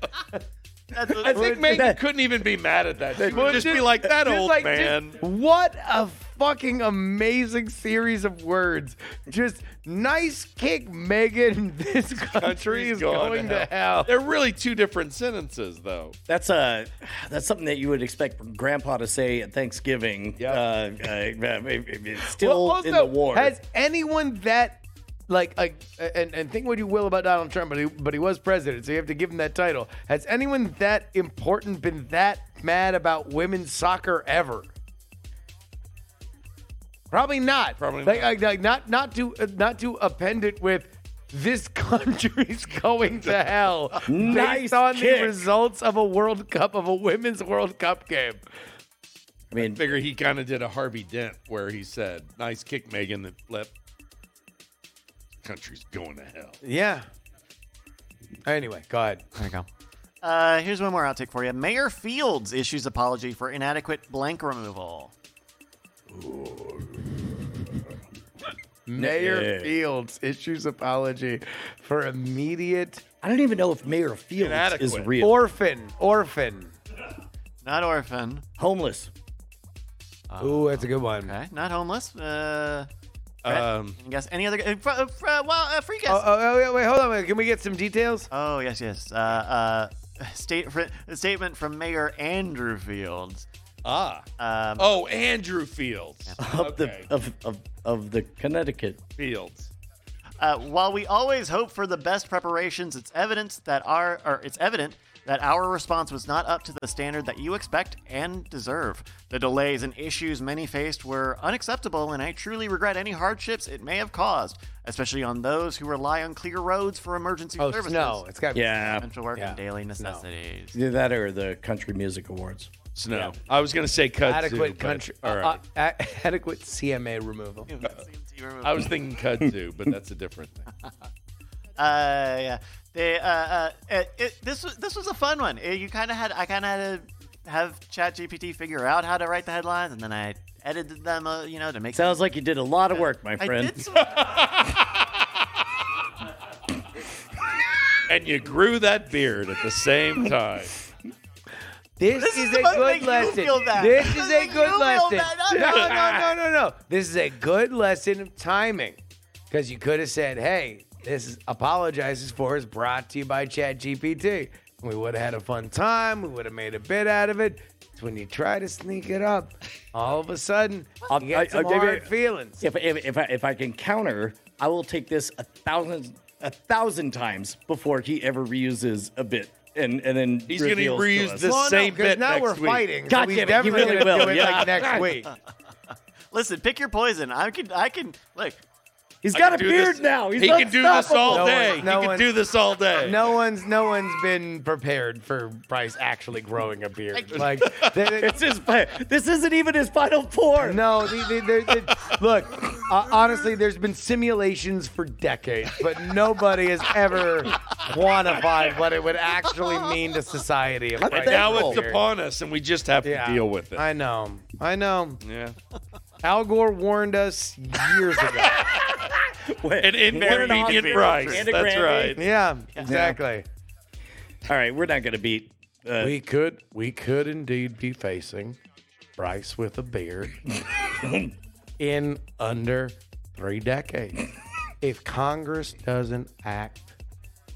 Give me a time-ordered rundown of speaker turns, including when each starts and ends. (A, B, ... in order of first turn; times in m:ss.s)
0:00.9-0:01.4 A
0:01.1-0:05.2 B
0:01.2-0:02.0 C
0:03.2-0:14.1 D
0:12.2-0:16.1 B
0:16.3-0:23.5 C
0:20.4-0:20.6 B
0:22.3-0:34.7 D
0:37.1-0:48.4 D
0:37.8-0:38.3 B
0:43.1-0:43.4 B
0:44.1-0:45.4 C
0:49.5-0:49.8 C
0:49.6-0:53.7 B
0:55.4-0:56.5 B
0:56.6-0:57.0 D
0:58.4-0:59.2 D
0:59.4-0:59.7 A
1:00.2-1:05.1 A
1:06.1-1:07.0 C
1:08.8-1:13.0 D
1:09.0-1:09.7 C
1:13.2-1:15.4 C
1:14.4-1:15.1 B
1:15.2-1:16.7 D
1:17.6-1:18.4 A
1:18.6-1:19.1 C
1:20.3-1:22.9 A
1:20.4-1:21.3 D
1:23.4-1:24.0 B
1:23.4-1:26.2 A
1:26.1-1:28.3 D
1:28.3-1:33.4 A
1:33.8-1:34.2 B
1:34.4-1:34.9 A
1:34.8-1:37.1 B
1:36.4-1:39.0 C
1:39.2-1:39.7 B
1:40.4-1:58.2 A
1:57.6-2:00.2 D
1:58.5-1:59.1 C
1:59.0-2:00.8 A
2:00.7-2:02.7 C
2:02.9-2:05.6 B
2:04.2-2:07.7 D
2:07.7-2:08.9 A
2:08.6-2:10.7 B
2:11.8-2:22.2 A
2:21.9-2:23.8 C
2:22.9-2:24.3 A
2:24.2-2:24.9 B
2:28.1-2:30.8 B
2:32.0-2:39.0 D
2:32.2-2:36.1 A
2:35.7-2:36.0 B
2:39.5-2:52.6 D
2:51.1-2:52.1 C
2:52.6-3:01.5 C
3:00.5-3:02.9 B
3:01.4-3:05.3 D
3:03.1-3:05.1 C
3:03.8-3:04.3 B
3:06.3-3:08.6 A
3:09.2-3:11.8 C
3:09.3-3:13.3 B
3:11.3-3:12.3 D
3:13.0-3:18.3 D
3:17.3-3:18.1 B
3:18.2-3:20.9 C
3:20.6-3:32.0 D
3:31.0-3:31.8 C
3:31.1-3:33.8 B
3:33.0-3:35.2 D
3:35.2-3:35.5 B
3:36.2-3:38.7 D
3:38.4-3:39.0 B
3:39.4-3:42.2 C
3:39.8-3:42.2 B
3:40.2-3:41.5 A
3:42.1-3:43.4 D
3:42.8-3:43.2 C
3:44.5-3:46.1 C
3:46.0-3:48.6 D
3:49.2-3:50.4 D
3:51.0-3:51.3 C
3:51.8-3:54.2 D
3:54.8-3:56.9 D